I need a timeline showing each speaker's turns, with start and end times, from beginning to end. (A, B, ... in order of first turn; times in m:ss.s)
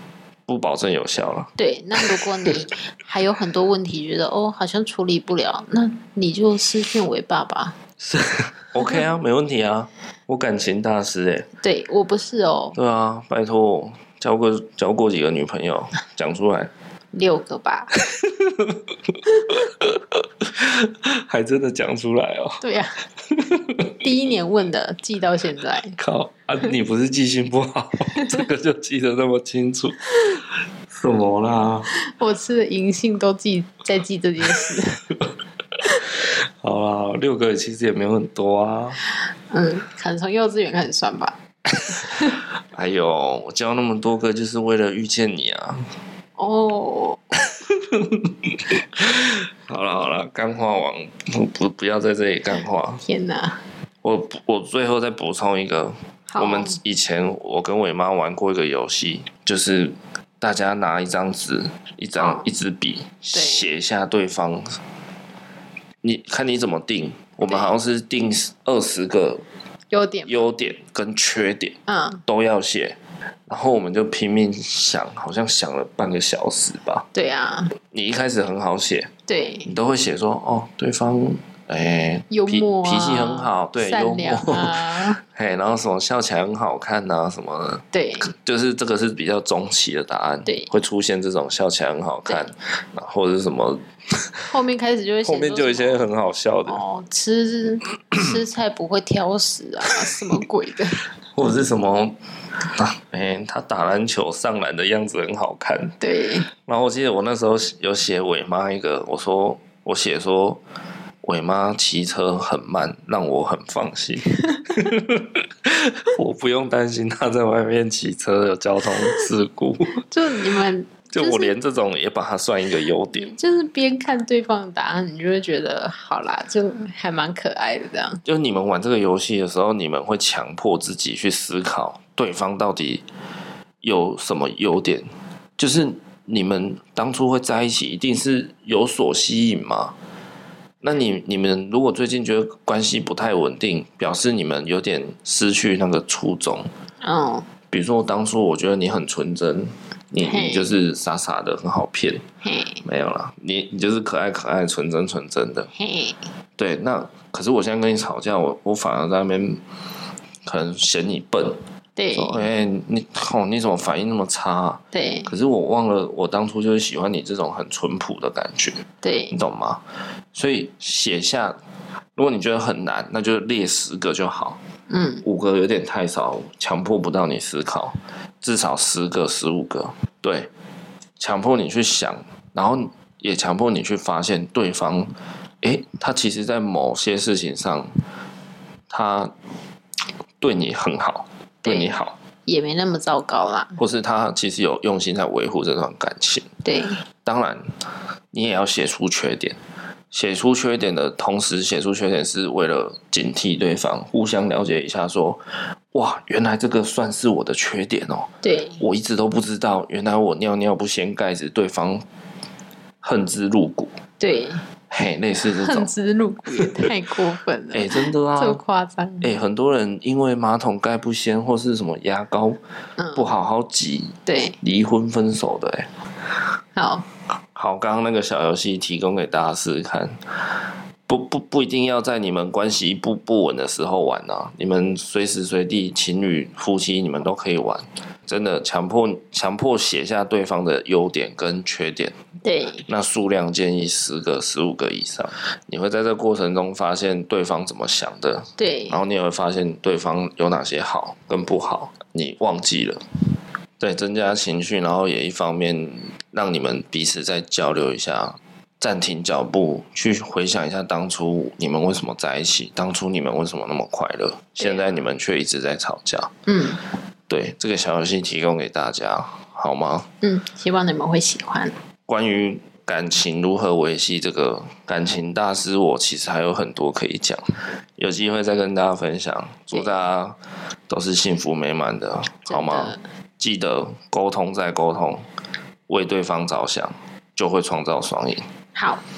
0:00.5-0:02.2 A
0:01.6-0:07.8 B
0:08.0-0:11.5 A
0:11.6-0:12.8 B
0:12.8-0:16.7 A
0:17.1-0:18.0 B
0:18.1-0:18.8 A
0:19.5-0:22.6 A
0:22.6-0:23.0 B
0:23.3-0:23.9 A
0:24.0-0:26.0 B
0:26.0-0:30.3 A
0:28.2-0:28.4 B
0:30.9-0:31.9 A
0:32.0-0:35.1 B
0:35.8-0:39.0 A
0:39.5-0:42.4 B
0:42.7-0:45.9 A
0:46.4-0:47.2 B
0:47.5-0:53.0 A
0:53.0-0:53.6 B
0:54.0-1:04.8 A
0:56.3-0:56.8 B
1:02.2-1:02.5 B
1:03.3-1:03.7 B
1:06.0-1:09.4 A
1:07.5-1:07.7 B
1:09.9-1:10.3 B
1:10.3-1:17.1 A
1:11.9-1:12.2 B
1:17.1-1:17.8 B
1:17.8-1:19.1 A
1:19.3-1:19.7 B
1:19.6-1:34.5 A
1:22.3-1:25.2 B
1:27.9-1:28.3 B
1:30.5-1:30.7 B
1:34.5-1:36.1 B
1:35.2-1:36.8 A
1:36.7-1:41.1 B
1:41.3-1:46.0 A
1:46.0-1:46.5 B
1:46.5-1:50.6 A
1:51.2-2:00.0 A
2:00.1-2:01.5 B
2:01.1-2:03.3 A
2:03.1-2:08.2 B
2:08.2-2:13.0 A
2:13.8-2:20.0 A
2:20.8-2:26.7 A
2:27.0-2:27.5 B
2:27.7-2:32.2 A
2:30.2-2:30.7 B
2:32.4-2:32.8 B
2:32.8-2:35.7 A
2:35.8-2:36.2 B
2:36.6-2:39.6 A
2:40.5-2:41.6 A
2:42.0-2:42.5 B
2:42.1-2:49.8 A
2:44.9-2:45.3 B
2:49.0-2:49.4 B
2:50.3-2:51.6 A
2:52.2-2:54.6 A
2:54.9-2:55.2 B
2:55.2-3:00.5 A
3:01.2-3:07.9 A
3:08.9-3:09.3 A
3:10.4-3:12.2 A
3:11.6-3:12.0 B
3:12.5-3:13.8 B
3:13.8-3:16.5 A
3:16.6-3:17.0 B
3:17.2-3:17.6 A
3:18.3-3:19.6 A
3:20.1-3:32.0 A
3:28.4-3:28.8 B
3:33.0-3:33.9 A
3:34.2-3:34.6 B
3:34.9-3:35.9 A
3:35.6-3:39.4 B
3:37.7-3:38.6 A
3:39.2-3:42.6 A
3:43.1-3:45.9 A
3:44.3-3:44.6 B
3:46.8-3:47.1 B
3:47.6-3:50.2 A
3:51.1-4:02.2 A
4:02.4-4:02.9 B
4:02.9-4:13.0 A
4:08.6-4:09.0 B
4:13.8-4:26.3 A
4:26.5-4:26.8 B
4:27.3-4:30.1 A
4:30.2-4:31.8 B
4:32.1-4:40.4 A
4:40.9-4:45.2 A
4:42.5-4:43.0 B
4:45.9-4:48.4 A
4:48.8-4:49.0 B